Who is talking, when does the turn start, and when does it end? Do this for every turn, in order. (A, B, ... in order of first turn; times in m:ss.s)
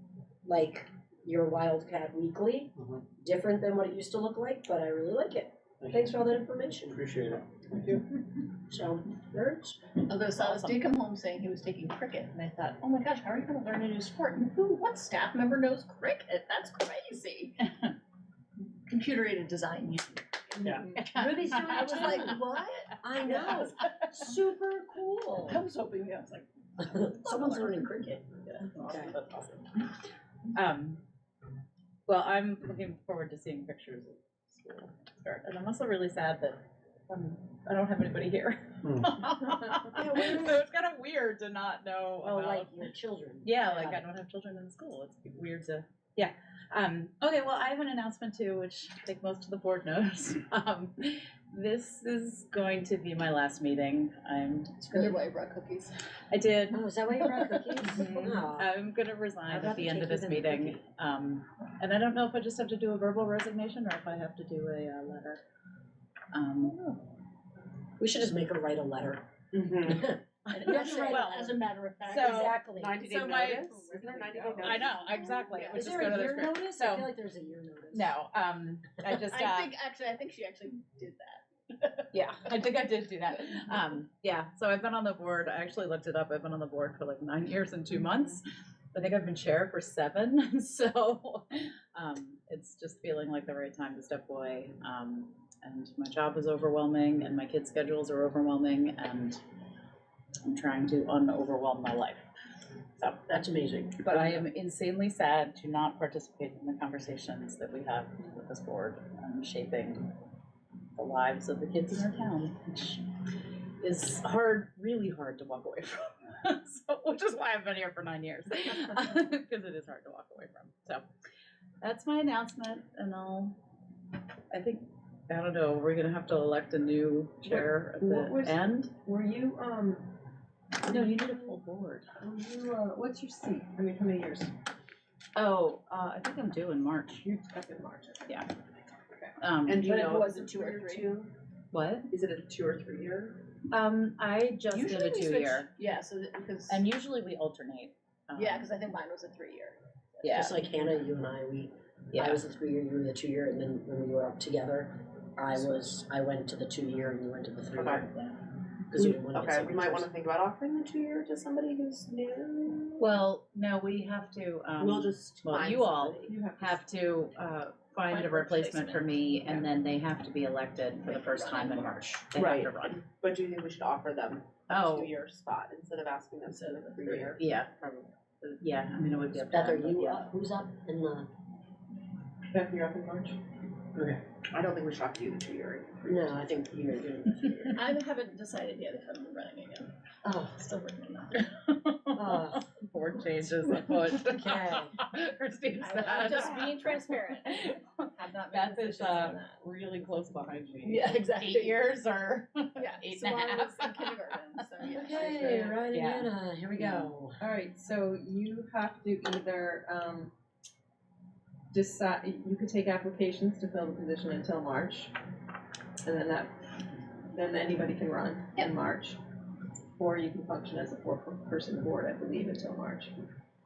0:00.4-0:07.1 A
0:08.7-0:09.8 A
0:10.1-0:17.6 B
0:10.4-0:10.9 C
0:17.7-0:17.9 C
0:18.9-0:20.4 B
0:20.6-0:22.3 C
0:20.6-0:20.9 D
0:21.0-0:22.4 A
0:21.6-0:24.0 B
0:23.0-0:25.6 A
0:23.3-0:23.7 C
0:25.5-0:26.4 B
0:26.8-0:29.2 A
0:27.2-0:27.5 B
0:27.3-0:27.9 C
0:28.5-0:29.9 C
0:30.5-0:31.0 C
0:32.1-0:42.8 C
0:39.9-0:40.6 A
0:42.2-0:44.0 A
0:43.4-0:55.1 C
0:54.8-0:56.0 B
0:56.2-0:57.3 C
0:56.7-0:58.8 A
0:57.6-0:58.0 B
0:57.8-1:05.4 C
0:59.5-1:00.8 A
1:06.3-1:07.0 C
1:08.0-1:14.7 A
1:10.5-1:13.9 C
1:10.5-1:12.7 B
1:12.7-1:15.0 E
1:13.9-1:14.7 D
1:14.6-1:17.1 C
1:14.8-1:16.4 B
1:15.6-1:18.1 A
1:17.9-1:19.7 C
1:19.1-1:22.3 B
1:22.1-1:39.4 C
1:40.4-1:42.2 C
1:43.0-1:43.4 C
1:43.3-1:44.3 A
1:44.0-1:50.1 C
1:50.9-1:53.0 C
1:53.8-2:01.0 C
2:01.8-2:03.6 C
2:04.5-2:08.9 C
2:07.4-2:10.0 D
2:10.8-2:12.1 C
2:10.9-2:11.2 D
2:12.1-2:14.5 D
2:15.3-2:17.2 C
2:17.2-2:18.4 D
2:19.4-2:19.9 C
2:19.6-2:21.3 E
2:19.7-2:21.2 B
2:21.7-2:22.1 C
2:22.1-2:23.4 D
2:23.7-2:25.7 C
2:25.1-2:25.5 D
2:25.1-2:26.8 B
2:26.7-2:28.7 C
2:28.3-2:30.3 B
2:30.2-2:30.6 C
2:30.3-2:38.1 A
2:32.1-2:32.4 C
2:37.7-2:38.2 E
2:38.9-2:40.1 A
2:38.9-2:43.1 E
2:43.0-2:53.0 C
2:44.8-2:46.3 E
2:46.2-2:46.8 D
2:48.1-2:49.6 B
2:51.0-2:52.2 B
2:52.3-2:58.5 E
2:54.7-2:55.1 C
2:56.5-2:57.3 B
2:57.4-2:57.7 C
2:58.6-3:00.3 C
2:59.5-3:01.3 A
3:02.5-3:03.4 D
3:04.0-3:06.4 E
3:06.0-3:07.8 A
3:07.7-3:11.4 B
3:10.2-3:10.6 A
3:11.3-3:27.1 C
3:12.1-3:12.7 A
3:13.7-3:15.0 A
3:15.8-3:19.5 B
3:20.8-3:21.8 B
3:22.8-3:25.8 B
3:24.9-3:27.4 A
3:27.4-3:30.3 D
3:31.7-3:35.1 D
3:36.0-3:36.5 D
3:37.3-3:39.2 D
3:40.0-3:43.1 D